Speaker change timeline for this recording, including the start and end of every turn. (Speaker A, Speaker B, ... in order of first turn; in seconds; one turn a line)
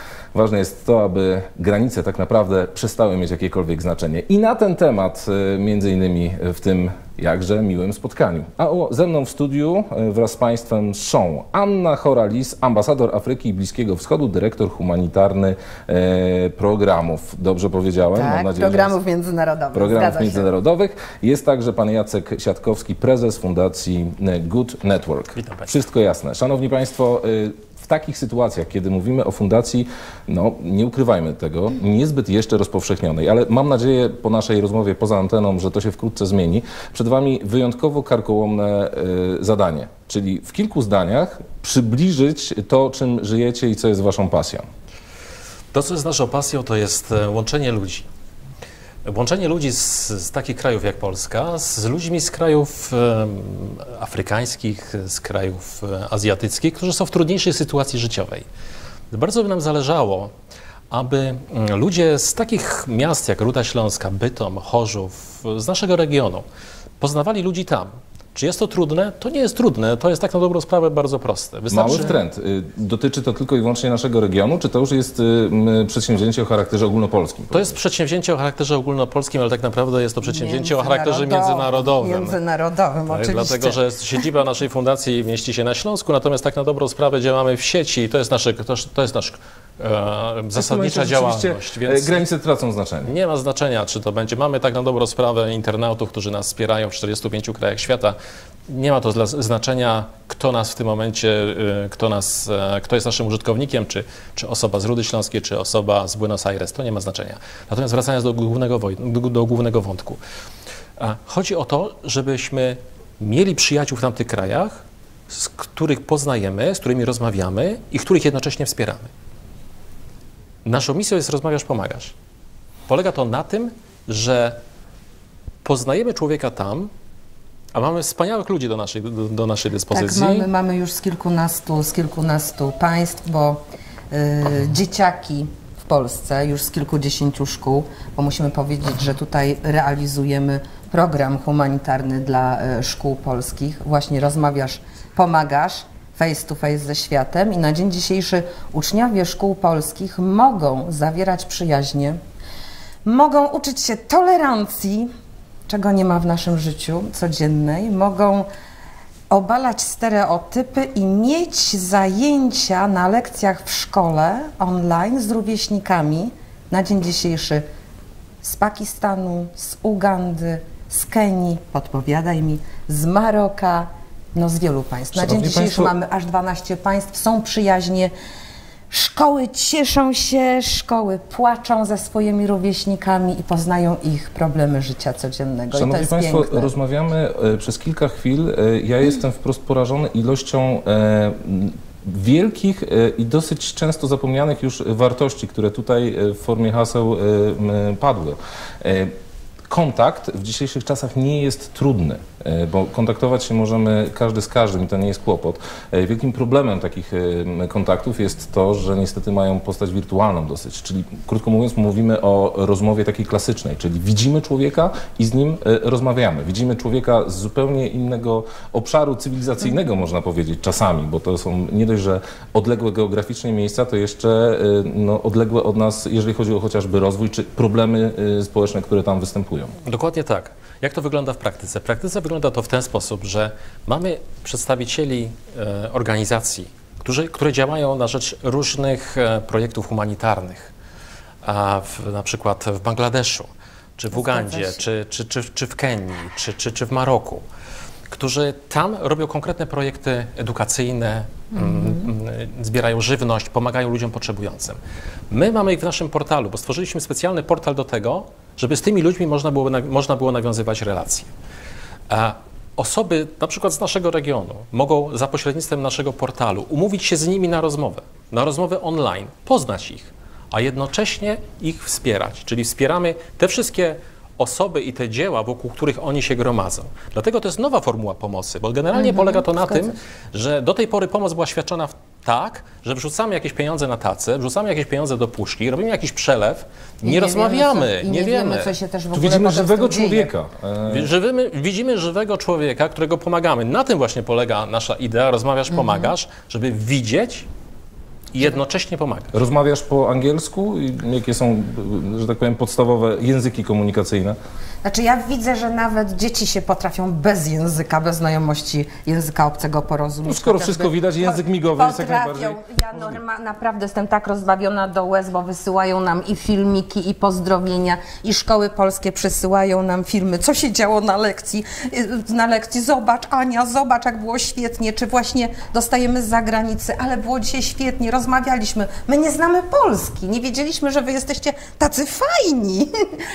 Speaker A: 0.3-18.9
Speaker B: 18.1-20.5
Speaker A: 19.7-44.7
Speaker C: 25.4-25.7
Speaker C: 45.7-48.1
Speaker C: 49.0-58.5
Speaker C: 59.1-60.3
Speaker C: 60.9-66.5
Speaker C: 67.0-72.2
Speaker A: 71.7-77.7
Speaker C: 77.5-82.4
Speaker B: 80.2-84.2
Speaker C: 83.1-92.2
Speaker A: 90.5-93.1
Speaker C: 93.0-98.2
Speaker C: 98.7-110.2
Speaker C: 111.0-119.1
Speaker C: 120.7-122.1
Speaker C: 122.9-124.6
Speaker C: 125.6-126.9
Speaker C: 127.7-130.5
Speaker B: 129.9-152.2
Speaker B: 153.1-155.1
Speaker B: 155.7-158.5
Speaker B: 159.3-167.6
Speaker B: 168.4-178.1
Speaker A: 175.1-175.9
Speaker B: 178.9-186.7
Speaker A: 185.7-199.1
Speaker A: 199.7-229.7
Speaker C: 229.8-240.7
Speaker C: 241.4-247.4
Speaker B: 244.1-244.8
Speaker C: 248.1-254.8
Speaker B: 251.5-252.1
Speaker C: 255.3-261.3
Speaker C: 262.1-288.7
Speaker B: 278.9-280.0
Speaker B: 287.0-290.3
Speaker A: 289.1-291.1
Speaker C: 290.9-297.5
Speaker B: 295.7-296.1
Speaker C: 298.3-299.3
Speaker A: 299.3-304.4
Speaker B: 304.8-332.9
Speaker A: 310.2-313.2